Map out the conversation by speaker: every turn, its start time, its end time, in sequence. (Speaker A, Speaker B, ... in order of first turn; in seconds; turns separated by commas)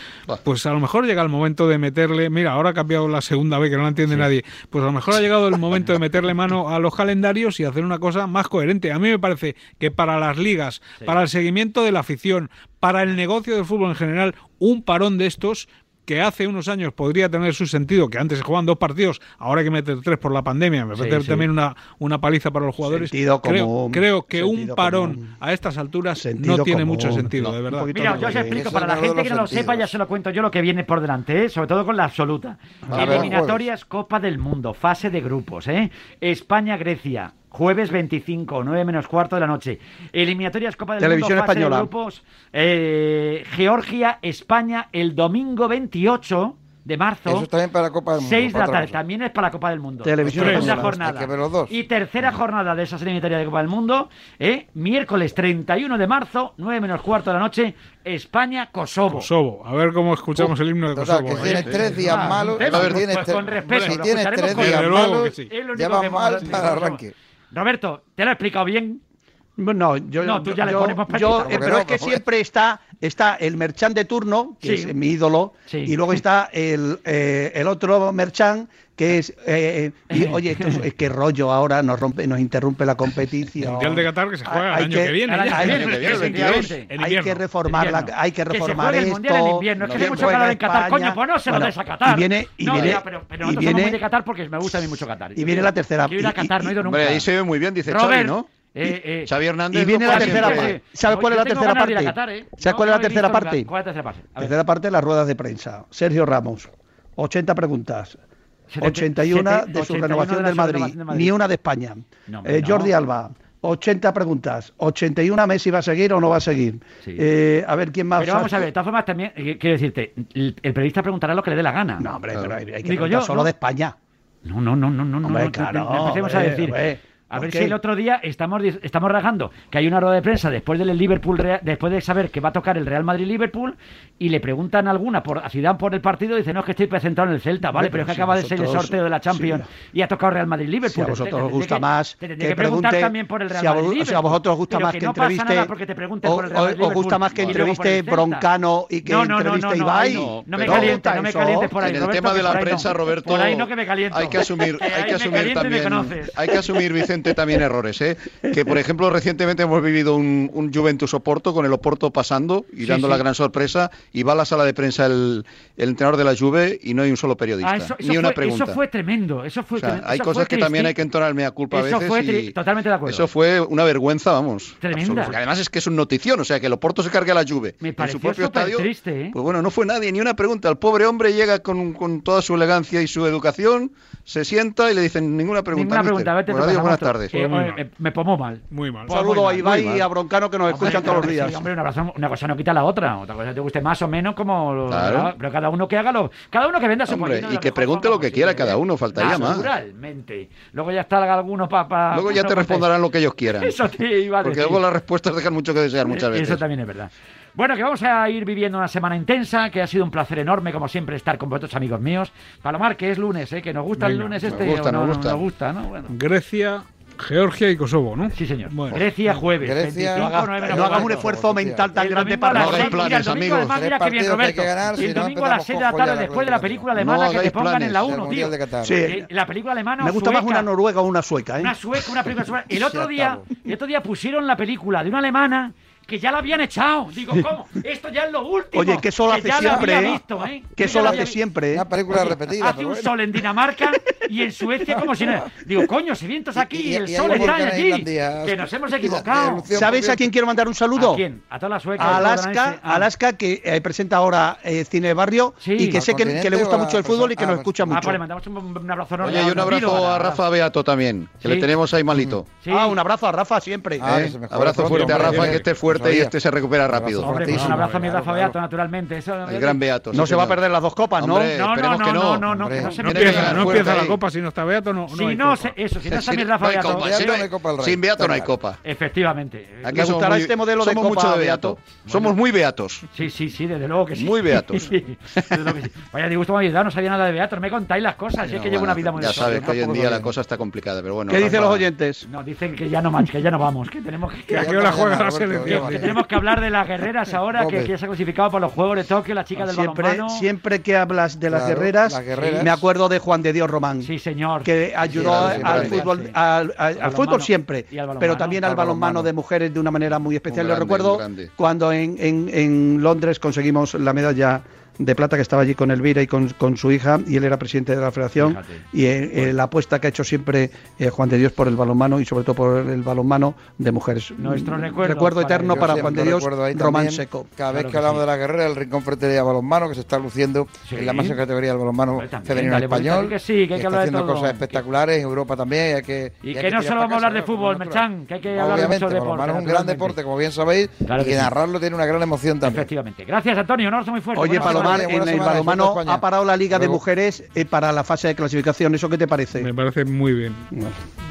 Speaker A: 0.4-28.4, Speaker B: 20.9-21.4, Speaker C: 22.9-25.3, Speaker C: 26.2-28.7, Speaker B: 27.9-47.5, Speaker D: 28.5-29.9, Speaker C: 32.9-33.3, Speaker D: 32.9-33.7, Speaker E: 33.0-33.3, Speaker C: 41.0-41.9, Speaker D: 47.3-49.0, Speaker B: 48.2-59.3, Speaker C: 50.0-50.9, Speaker D: 50.2-51.8, Speaker A: 50.4-50.8, Speaker A: 59.1-62.2, Speaker D: 60.9-67.1, Speaker B: 61.4-69.0, Speaker E: 61.5-61.8, Speaker E: 62.6-63.1, Speaker A: 64.5-65.5, Speaker C: 69.6-85.9, Speaker B: 70.2-71.7, Speaker D: 71.3-72.2, Speaker B: 74.6-74.9, Speaker B: 75.7-75.9, Speaker B: 80.1-80.8, Speaker A: 83.6-87.4, Speaker B: 85.2-86.9, Speaker E: 85.6-86.7, Speaker C: 87.0-94.0, Speaker B: 87.7-97.3, Speaker E: 89.8-90.3, Speaker E: 92.7-93.0, Speaker C: 95.4-96.8, Speaker E: 96.8-98.5, Speaker B: 97.9-99.3, Speaker E: 99.3-100.8, Speaker C: 99.7-103.7, Speaker B: 100.0-104.5, Speaker C: 104.4-108.2, Speaker B: 108.7-111.3, Speaker C: 108.8-118.7, Speaker B: 112.3-112.9, Speaker B: 118.2-122.1, Speaker C: 122.0-124.0, Speaker B: 122.8-123.5, Speaker B: 124.5-148.4, Speaker C: 125.2-127.8, Speaker C: 137.8-139.7, Speaker C: 140.8-151.7, Speaker E: 147.3-147.6, Speaker B: 149.1-156.4, Speaker E: 150.0-151.0, Speaker E: 151.8-168.8, Speaker B: 162.8-163.2, Speaker B: 167.6-170.9, Speaker E: 169.8-172.6, Speaker B: 171.7-173.3, Speaker E: 173.1-187.3, Speaker B: 174.8-175.4, Speaker B: 177.8-179.3, Speaker B: 185.7-189.8, Speaker A: 187.3-187.8, Speaker A: 188.7-189.1, Speaker C: 189.1-191.6, Speaker E: 189.6-190.1, Speaker B: 190.7-202.9, Speaker E: 194.9-195.3, Speaker E: 197.1-199.7, Speaker E: 202.1-203.7, Speaker B: 203.6-204.8, Speaker E: 204.4-206.6, Speaker B: 206.1-216.1, Speaker A: 214.0-214.4, Speaker E: 214.4-215.4, Speaker A: 216.1-219.0, Speaker B: 218.3-221.3, Speaker D: 219.6-221.9, Speaker C: 220.2-223.0, Speaker B: 222.0-230.7, Speaker E: 222.6-223.8, Speaker D: 223.6-226.9, Speaker E: 227.0-228.1, Speaker D: 228.0-229.1, Speaker C: 228.8-229.3, Speaker C: 230.0-232.3, Speaker B: 231.6-241.4, Speaker C: 238.7-241.9, Speaker D: 239.6-240.1, Speaker D: 240.9-243.1, Speaker B: 242.1-249.7, Speaker D: 246.6-250.3, Speaker C: 247.3-247.6, Speaker C: 249.7-251.2, Speaker B: 250.9-253.1, Speaker C: 252.0-258.2, Speaker B: 255.6-256.0, Speaker D: 255.8-258.2, Speaker B: 257.9-260.4, Speaker E: 259.2-262.5, Speaker B: 261.4-261.7, Speaker D: 262.1-262.4, Speaker B: 262.6-263.0, Speaker C: 262.7-264.3, Speaker D: 264.0-266.4, Speaker E: 264.0-267.3, Speaker A: 264.9-265.6, Speaker D: 266.9-268.6, Speaker B: 267.2-269.8, Speaker A: 267.5-267.9, Speaker E: 269.5-270.6, Speaker C: 270.1-271.5, Speaker E: 271.2-272.5, Speaker B: 271.6-273.9, Speaker D: 272.5-273.9, Speaker E: 273.0-274.2, Speaker A: 273.0-275.8, Speaker B: 275.1-277.1, Speaker E: 276.1-278.8, Speaker D: 276.9-278.5, Speaker B: 278.8-280.1, Speaker E: 279.8-283.1, Speaker C: 279.9-281.8, Speaker B: 282.1-282.4, Speaker B: 283.1-289.8, Speaker E: 284.1-285.7, Speaker E: 288.4-291.9, Speaker D: 289.4-290.0, Speaker C: 289.5-290.3, Speaker C: 291.3-292.3, Speaker B: 292.3-294.8, Speaker D: 294.5-296.2, Speaker A: 294.5-296.2, Speaker B: 295.6-300.5, Speaker D: 297.6-297.9, Speaker C: 299.6-304.1, Speaker D: 301.5-302.8, Speaker B: 302.3-302.7, Speaker B: 304.0-304.7, Speaker C: 304.6-327.5, Speaker D: 305.1-306.0, Speaker E: 305.1-306.0, Speaker B: 305.5-306.4, Speaker B: 307.0-309.3, Speaker E: 310.5-311.5, Speaker B: 318.4-318.8, Speaker B: 324.4-326.3, Speaker D: 325.7-342.9, Speaker B: 327.7-328.2, Speaker B: 330.9-331.4, Speaker B: 332.1-334.8, Speaker B: 336.4-340.2, Speaker B: 341.1-341.5, Speaker B: 342.6-345.1, Speaker C: 344.4-349.7, Speaker D: 344.5-347.0, Speaker A: 349.6-350.7, Speaker C: 350.7-351.0